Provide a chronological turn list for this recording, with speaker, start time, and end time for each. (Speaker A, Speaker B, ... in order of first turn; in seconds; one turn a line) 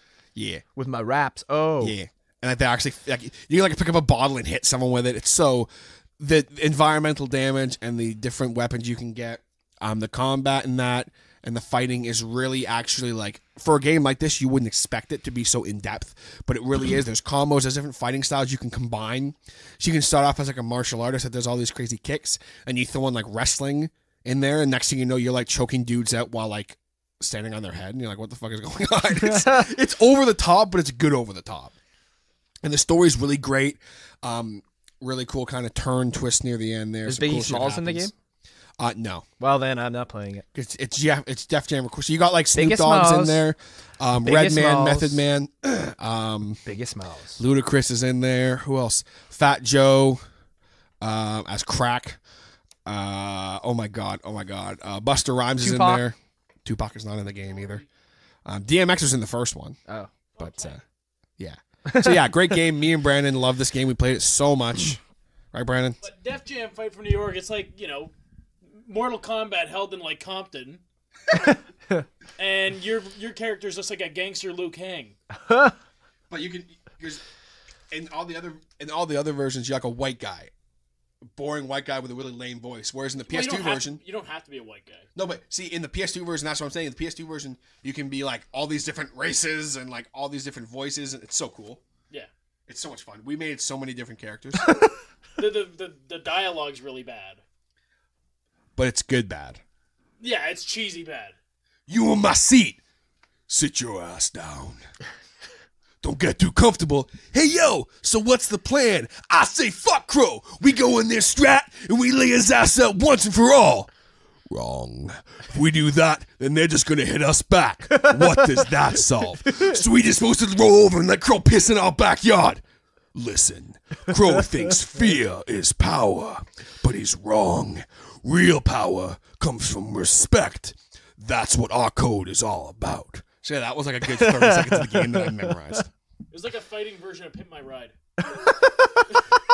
Speaker A: 0.3-0.6
Speaker B: 0.8-1.9
Speaker A: 1.8-5.7
Speaker A: 6.2-31.7
Speaker B: 29.2-29.7
Speaker A: 32.6-38.1
Speaker B: 37.0-38.1
Speaker A: 38.8-39.2
Speaker B: 39.4-40.4
Speaker A: 40.5-46.6
Speaker B: 42.5-43.4
Speaker B: 44.2-45.2
Speaker B: 46.6-47.4
Speaker A: 47.4-50.2
Speaker A: 51.0-52.2
Speaker A: 52.9-57.8
Speaker B: 55.6-56.0
Speaker A: 58.5-59.8
Speaker C: 60.4-60.8
Speaker A: 60.4-60.8
Speaker A: 61.4-65.0
Speaker B: 61.9-62.5
Speaker A: 65.5-66.0
Speaker C: 66.0-68.1
Speaker C: 68.8-70.8
Speaker B: 71.3-72.0
Speaker C: 72.4-75.1
Speaker B: 75.5-75.7
Speaker A: 76.3-77.2
Speaker A: 77.9-80.5
Speaker A: 81.3-84.0
Speaker C: 83.3-85.1
Speaker A: 85.1-91.8
Speaker A: 92.7-94.7
Speaker C: 95.4-97.4
Speaker A: 98.8-99.6
Speaker C: 100.2-101.3
Speaker A: 101.9-102.8
Speaker A: 103.5-104.8
Speaker A: 106.0-113.9
Speaker A: 114.5-122.6
Speaker A: 123.1-135.9
Speaker B: 134.1-135.5
Speaker C: 136.3-137.9
Speaker B: 138.3-138.9